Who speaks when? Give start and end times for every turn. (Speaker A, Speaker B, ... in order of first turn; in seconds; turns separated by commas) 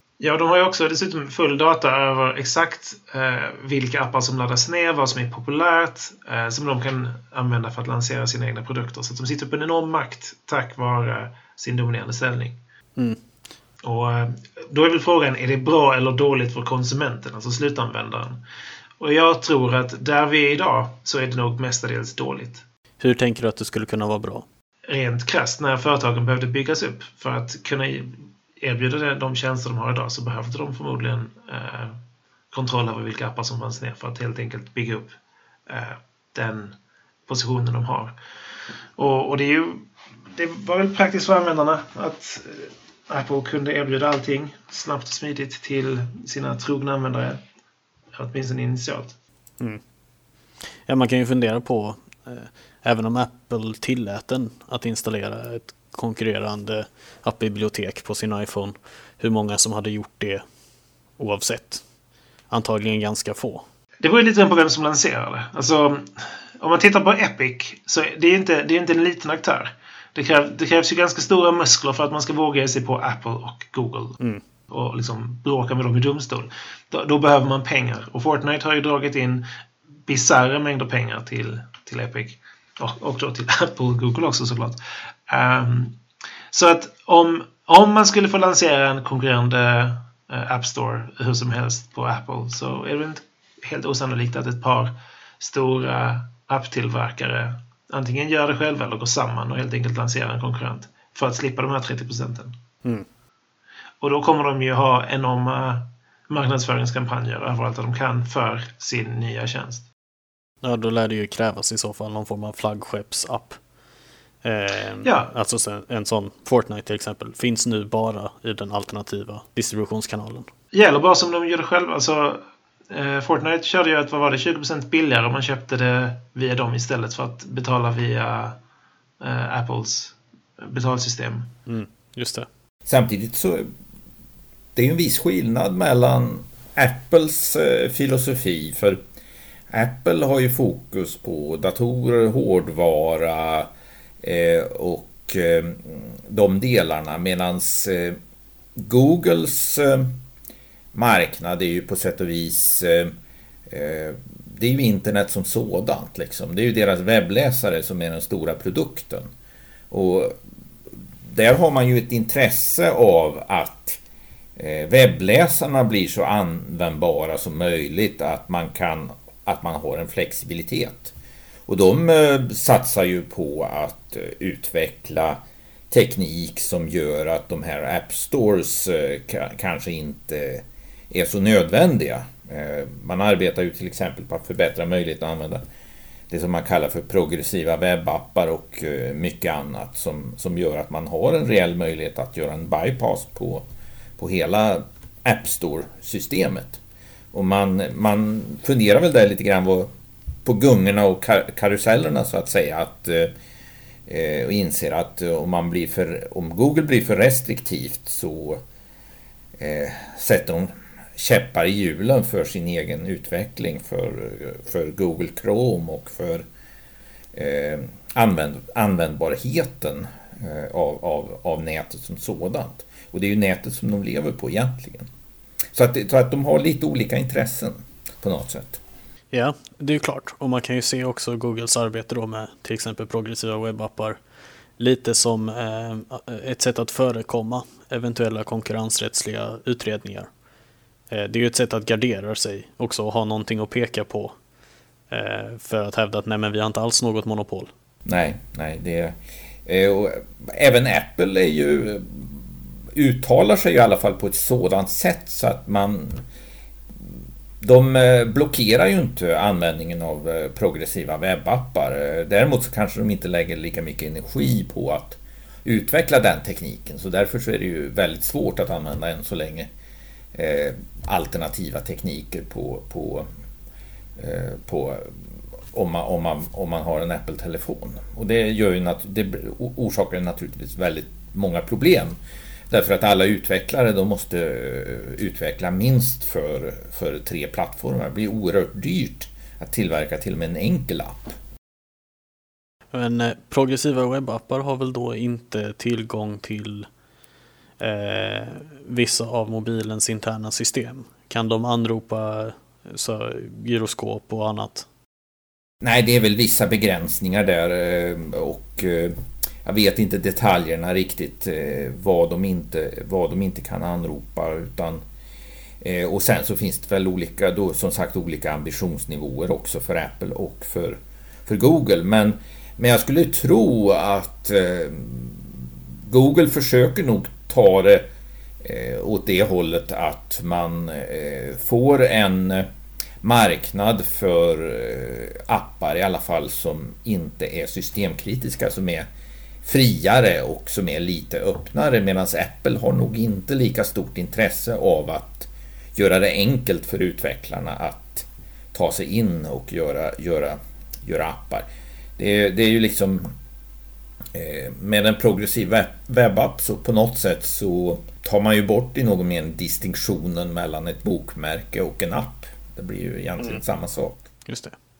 Speaker A: 0.2-12.6, Speaker B: 12.9-13.2, Speaker A: 13.8-18.4, Speaker A: 19.0-22.6, Speaker B: 23.0-24.4, Speaker A: 24.9-32.0, Speaker A: 32.5-35.1, Speaker A: 35.7-36.8, Speaker A: 37.3-38.1, Speaker A: 39.0-47.4, Speaker A: 48.1-49.1, Speaker B: 50.8-60.4, Speaker B: 61.2-61.8, Speaker B: 62.5-63.6, Speaker A: 64.0-74.2, Speaker A: 74.7-79.4, Speaker A: 80.0-85.9, Speaker A: 86.5-102.5, Speaker A: 104.0-109.8, Speaker B: 110.6-113.6, Speaker B: 114.4-120.5, Speaker A: 115.0-115.3, Speaker A: 120.7-128.6, Speaker A: 129.2-131.5, Speaker B: 131.7-132.5, Speaker C: 132.8-133.7, Speaker C: 134.7-139.0, Speaker C: 139.7-143.7, Speaker C: 144.2-148.2, Speaker C: 148.8-150.1, Speaker C: 150.9-153.1, Speaker C: 153.7-159.3, Speaker C: 159.9-160.3, Speaker C: 160.9-164.0, Speaker C: 164.6-171.1, Speaker C: 171.7-185.6, Speaker C: 186.3-193.6, Speaker C: 194.2-196.8, Speaker C: 197.3-199.9, Speaker C: 200.4-203.3, Speaker C: 204.1-208.6, Speaker C: 209.6-216.4, Speaker C: 217.3-225.1, Speaker C: 225.7-228.8, Speaker B: 229.3-234.2, Speaker B: 234.8-240.3, Speaker B: 241.1-244.3, Speaker B: 245.1-247.7, Speaker C: 248.0-256.2, Speaker C: 257.0-269.7, Speaker C: 270.3-273.3, Speaker C: 274.2-275.1, Speaker C: 275.7-282.2, Speaker C: 282.7-291.4, Speaker B: 292.9-296.9, Speaker B: 297.8-304.9, Speaker C: 305.8-315.0, Speaker C: 315.8-328.1, Speaker C: 328.6-332.7, Speaker C: 333.2-339.1, Speaker C: 339.6-353.3, Speaker C: 354.3-364.2, Speaker B: 364.4-364.7